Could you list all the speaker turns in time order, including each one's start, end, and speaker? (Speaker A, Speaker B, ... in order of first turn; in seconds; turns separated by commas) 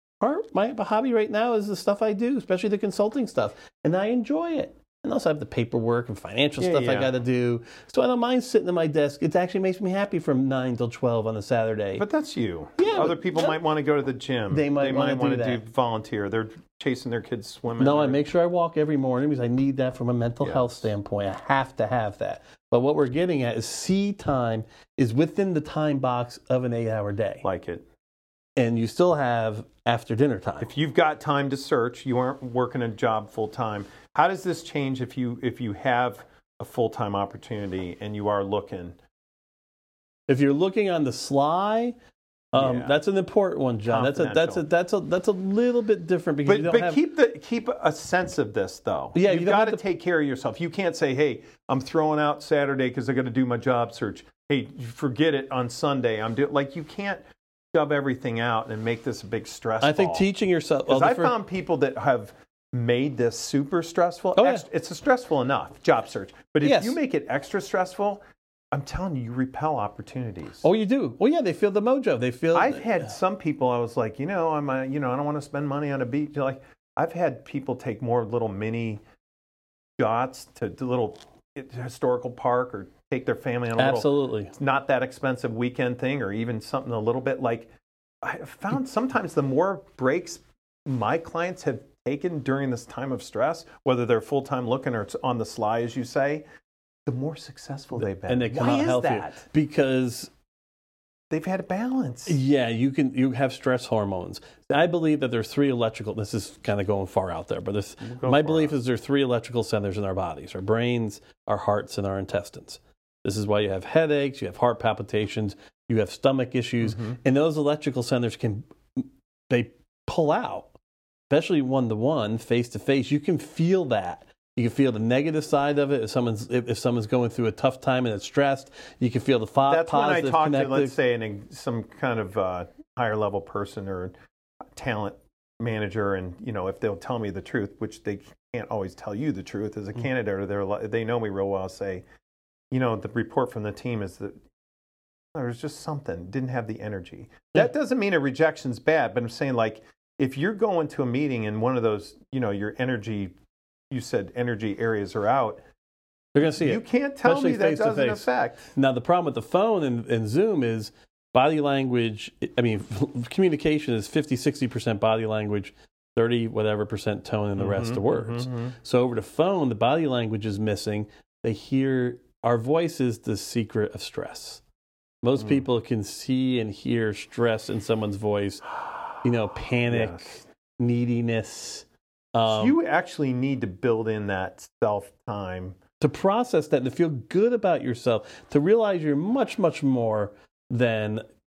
Speaker A: 0.2-12.1, Speaker B: 6.6-7.1, Speaker B: 12.0-18.2, Speaker A: 12.8-13.6, Speaker A: 14.5-15.6, Speaker A: 17.8-27.4, Speaker B: 20.4-20.9, Speaker B: 27.4-27.9, Speaker A: 28.6-30.7, Speaker B: 30.6-39.0, Speaker A: 40.3-42.0, Speaker A: 42.5-47.0, Speaker B: 42.6-43.0, Speaker B: 43.8-44.6, Speaker B: 46.5-57.2, Speaker A: 49.1-49.8, Speaker B: 57.7-60.2, Speaker A: 59.8-61.4, Speaker B: 60.9-70.7, Speaker A: 64.4-64.7, Speaker A: 66.6-67.0, Speaker A: 70.6-73.1, Speaker B: 72.5-79.0, Speaker B: 80.0-87.7, Speaker A: 83.8-84.5, Speaker B: 88.2-96.4, Speaker B: 97.1-99.4, Speaker A: 98.3-100.3, Speaker B: 101.3-102.4, Speaker A: 102.3-120.7, Speaker B: 108.0-108.8, Speaker B: 116.8-117.2, Speaker A: 121.3-130.9, Speaker B: 129.7-134.1, Speaker B: 134.8-142.0, Speaker B: 142.7-144.4, Speaker B: 145.3-153.3, Speaker B: 153.9-155.6, Speaker A: 156.3-174.6, Speaker B: 156.5-158.6, Speaker B: 167.6-168.7, Speaker A: 175.2-182.8, Speaker B: 175.4-175.6, Speaker B: 179.9-180.3, Speaker B: 182.5-185.8, Speaker A: 186.0-191.2